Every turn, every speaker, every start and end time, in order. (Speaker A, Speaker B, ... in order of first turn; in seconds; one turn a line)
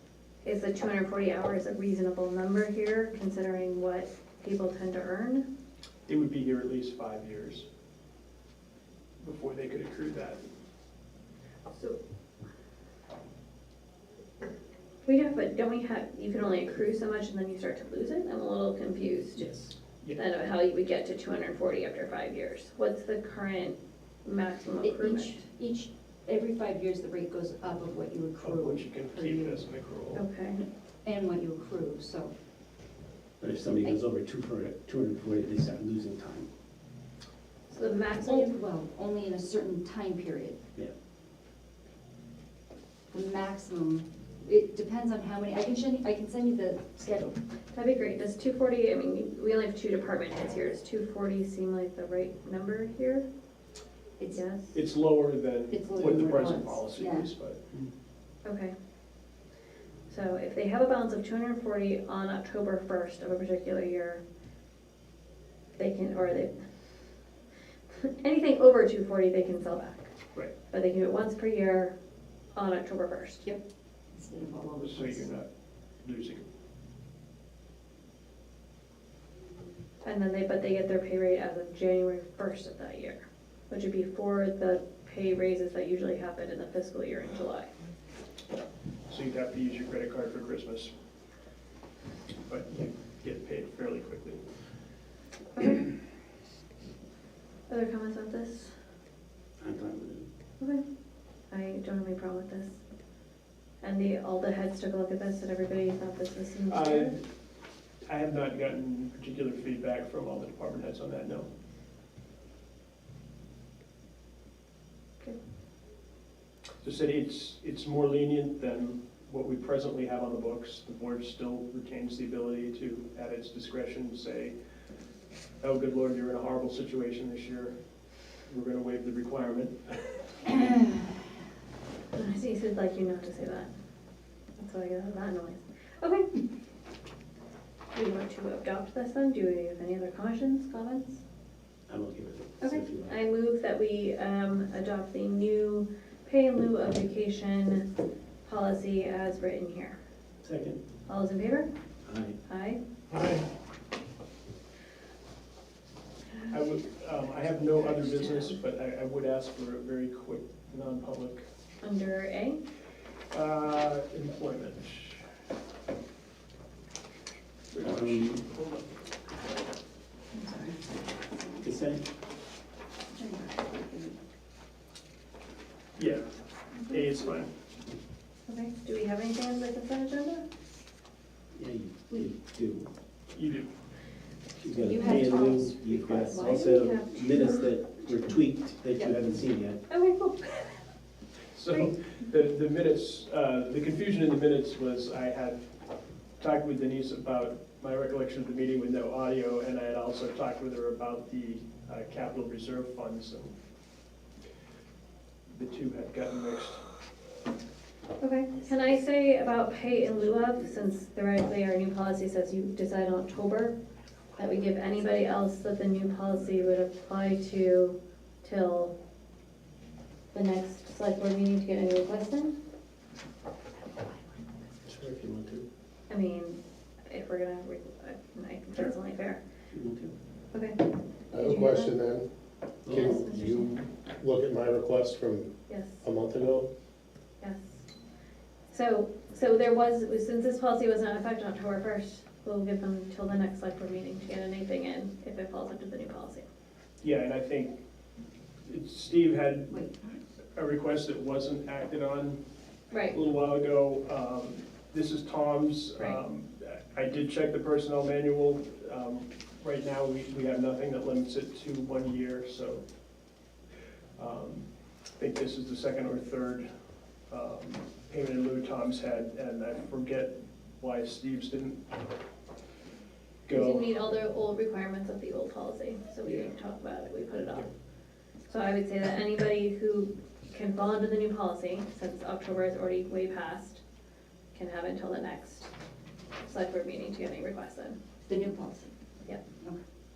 Speaker A: 0.4-5.5
Speaker B: 6.1-7.7
Speaker B: 9.2-10.4
Speaker C: 11.7-12.0
Speaker A: 15.1-25.4
Speaker C: 24.8-29.6
Speaker B: 28.4-30.2
Speaker A: 30.1-30.6
Speaker C: 30.6-32.3
Speaker D: 33.4-36.5
Speaker A: 37.7-38.5
Speaker C: 37.8-40.6
Speaker C: 43.1-47.4
Speaker A: 47.7-53.3
Speaker A: 54.3-54.8
Speaker B: 54.7-57.8
Speaker C: 55.7-57.3
Speaker A: 58.5-58.7
Speaker A: 60.1-64.2
Speaker A: 65.8-66.6
Speaker A: 68.0-70.1
Speaker A: 70.7-72.0
Speaker A: 72.5-73.5
Speaker C: 74.1-75.2
Speaker B: 74.7-75.5
Speaker B: 76.0-76.5
Speaker A: 80.0-87.7
Speaker B: 89.1-90.9
Speaker B: 92.5-94.5
Speaker A: 95.5-95.9
Speaker A: 97.7-98.8
Speaker D: 99.6-100.3
Speaker A: 101.5-102.8
Speaker A: 103.8-107.2
Speaker B: 106.7-107.2
Speaker B: 108.1-111.5
Speaker B: 116.8-124.5
Speaker B: 125.6-127.8
Speaker B: 128.5-130.5
Speaker A: 132.1-133.7
Speaker A: 134.6-136.3
Speaker A: 137.9-141.2
Speaker D: 141.9-143.2
Speaker A: 142.6-147.8
Speaker A: 148.4-150.0
Speaker D: 150.4-150.8
Speaker A: 151.1-151.7
Speaker D: 152.1-152.4
Speaker A: 152.5-152.8
Speaker B: 153.1-153.5
Speaker B: 156.5-161.5
Speaker A: 158.0-158.4
Speaker A: 161.8-162.6
Speaker B: 163.3-165.3
Speaker B: 167.7-168.9
Speaker D: 167.8-168.4
Speaker C: 170.3-170.8
Speaker D: 171.6-172.1
Speaker C: 173.1-174.2
Speaker B: 176.0-176.3
Speaker A: 176.9-177.3
Speaker B: 176.9-177.5
Speaker A: 178.5-180.4
Speaker D: 181.6-182.9
Speaker B: 183.3-183.7
Speaker D: 184.6-189.8
Speaker A: 184.7-187.7
Speaker C: 184.9-185.5
Speaker A: 189.9-190.8
Speaker B: 191.6-195.7
Speaker B: 196.4-203.5
Speaker B: 205.5-206.8
Speaker A: 208.2-213.8
Speaker A: 214.4-218.9
Speaker A: 220.3-222.6
Speaker D: 224.8-225.7
Speaker A: 226.1-229.4
Speaker D: 229.7-230.1
Speaker A: 230.5-230.8
Speaker A: 231.3-231.9
Speaker E: 231.3-232.3
Speaker D: 232.8-233.7
Speaker A: 232.9-233.7
Speaker E: 232.9-235.5
Speaker A: 235.7-236.0
Speaker E: 236.0-236.7
Speaker A: 237.4-237.9
Speaker A: 238.7-246.4
Speaker B: 247.0-247.8
Speaker B: 248.7-249.8
Speaker C: 249.7-250.2
Speaker B: 250.6-252.4
Speaker A: 252.9-253.2
Speaker B: 253.1-262.8
Speaker B: 264.2-264.7
Speaker B: 265.2-266.7
Speaker B: 267.3-271.8
Speaker B: 273.5-273.9
Speaker A: 273.5-277.7
Speaker B: 276.2-276.5
Speaker A: 278.5-283.8
Speaker A: 284.5-285.7
Speaker A: 286.4-288.0
Speaker C: 288.3-288.9